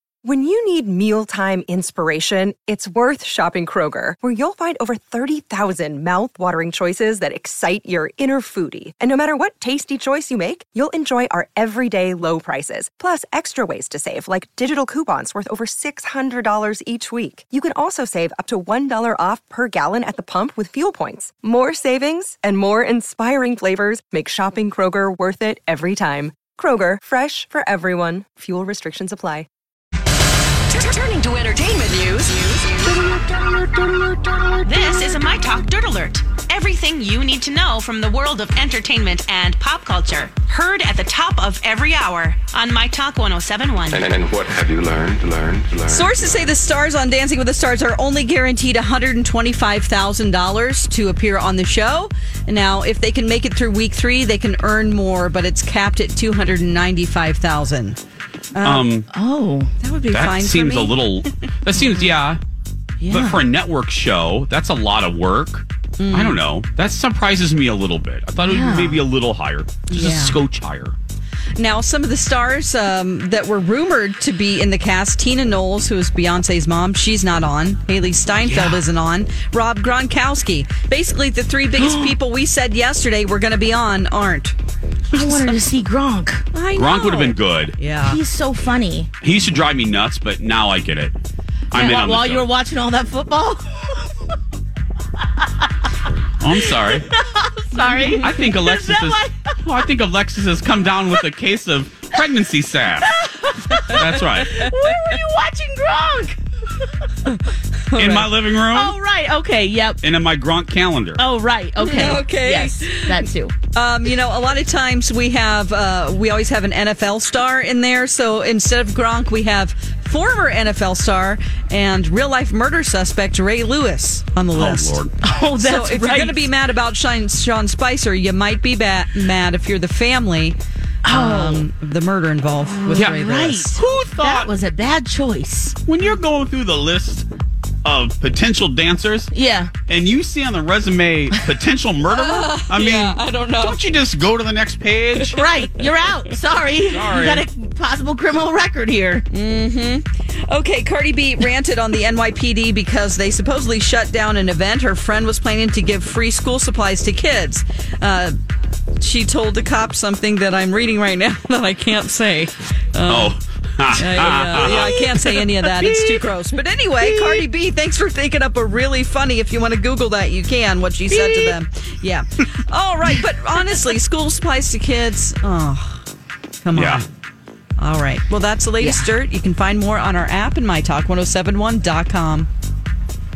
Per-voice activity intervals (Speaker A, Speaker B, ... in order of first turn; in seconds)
Speaker A: 0.2-29.5
Speaker B: 30.7-33.0, 34.6-44.0
Speaker C: 43.9-46.5
Speaker D: 45.9-58.0, 58.5-58.9, 59.8-61.3, 66.0-66.4, 69.9-70.4, 71.6-84.5, 85.1-85.7, 86.5-88.2, 97.8-98.3, 104.5-105.1, 107.2-108.3, 111.8-125.0, 125.6-133.8, 142.1-143.8, 145.2-145.5, 149.3-158.3, 159.0-163.3, 163.9-176.0, 176.6-177.1, 177.8-182.5
Speaker E: 58.6-59.1, 60.1-62.4, 63.1-71.0, 86.7-87.8, 89.2-91.1, 91.7-92.5, 96.4-97.1, 98.2-103.1, 103.9-104.6, 108.0-108.9, 110.0-111.2, 124.5-125.1, 132.9-133.2, 133.7-134.5, 135.8-137.3, 137.8-139.3, 139.9-145.3, 146.9-147.4, 163.1-166.0, 176.7-177.0
Speaker F: 59.1-59.7, 63.0-63.4, 68.4-69.0, 81.8-82.1, 85.1-86.5, 88.0-89.1, 91.7-94.1, 96.6-99.6, 103.2-106.9, 108.7-110.0, 111.2-113.5, 125.2-126.5, 131.0-131.7, 132.7-135.8, 139.3-139.7, 145.3-149.2, 171.2-171.5